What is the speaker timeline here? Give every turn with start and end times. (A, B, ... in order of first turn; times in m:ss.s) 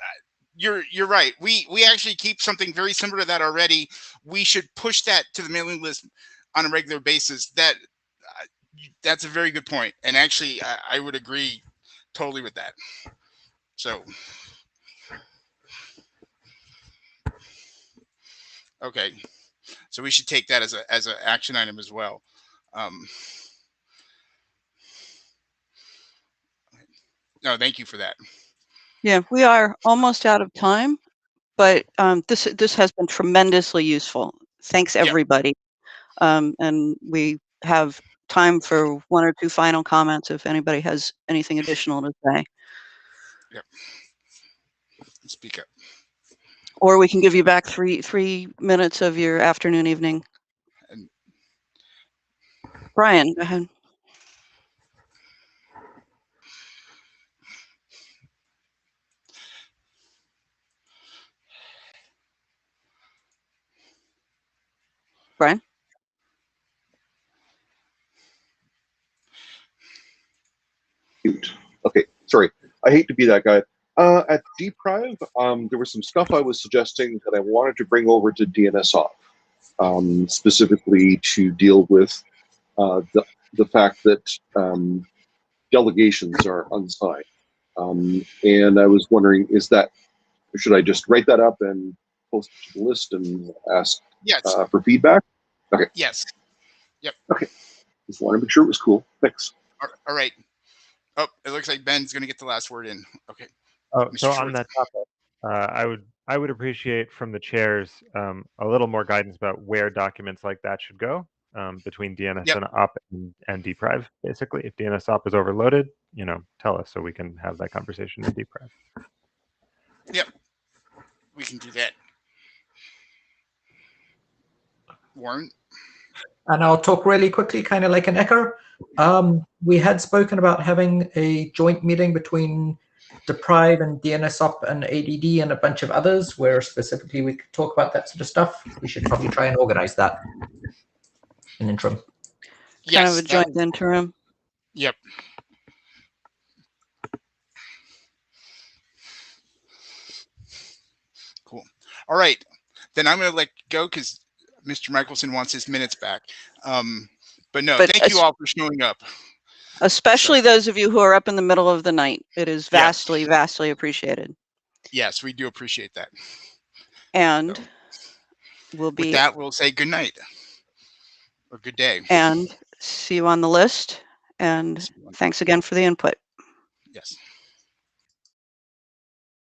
0:00.6-0:07.8 A
0:08.4-0:11.6 A
0:12.1-0:12.8 A
0:13.8-0:14.1 A
0:18.8-0:19.2 A
0:19.9-0:22.2 A
0:22.7-0:23.3 A
0:27.4-0:28.2 A
0:29.0-0:31.0 B
0:31.6-0:35.6 B
0:36.2-0:42.5 B
0:45.2-0:45.7 A
0:46.8-0:50.2 B
0:53.0-0:53.7 B
1:11.2-1:19.2 C
1:19.8-1:22.2 C
1:22.8-1:25.1 C
1:25.7-1:27.2 C
1:27.8-1:29.9 C
1:30.5-1:35.9 C
1:34.2-1:34.5 A
1:36.0-1:36.3 A
1:38.1-1:39.5 C
1:39.8-1:40.4 A
1:41.2-1:43.5 A
1:43.9-1:58.7 D
1:44.1-1:44.6 A
2:01.4-2:01.9 A
2:05.2-2:05.5 A
2:06.5-2:20.2 E
2:21.6-2:22.0 E
2:22.9-2:23.5 A
2:22.9-2:24.1 B
2:31.5-2:32.4 A
2:33.0-2:39.1 A
2:37.8-2:38.2 B
2:39.8-2:44.4 B
2:42.7-2:43.2 A
2:44.9-2:46.1 A
2:47.1-2:47.7 B
2:48.7-2:49.2 B
2:49.0-2:50.2 A
2:51.5-2:52.1 A
2:52.1-2:56.2 B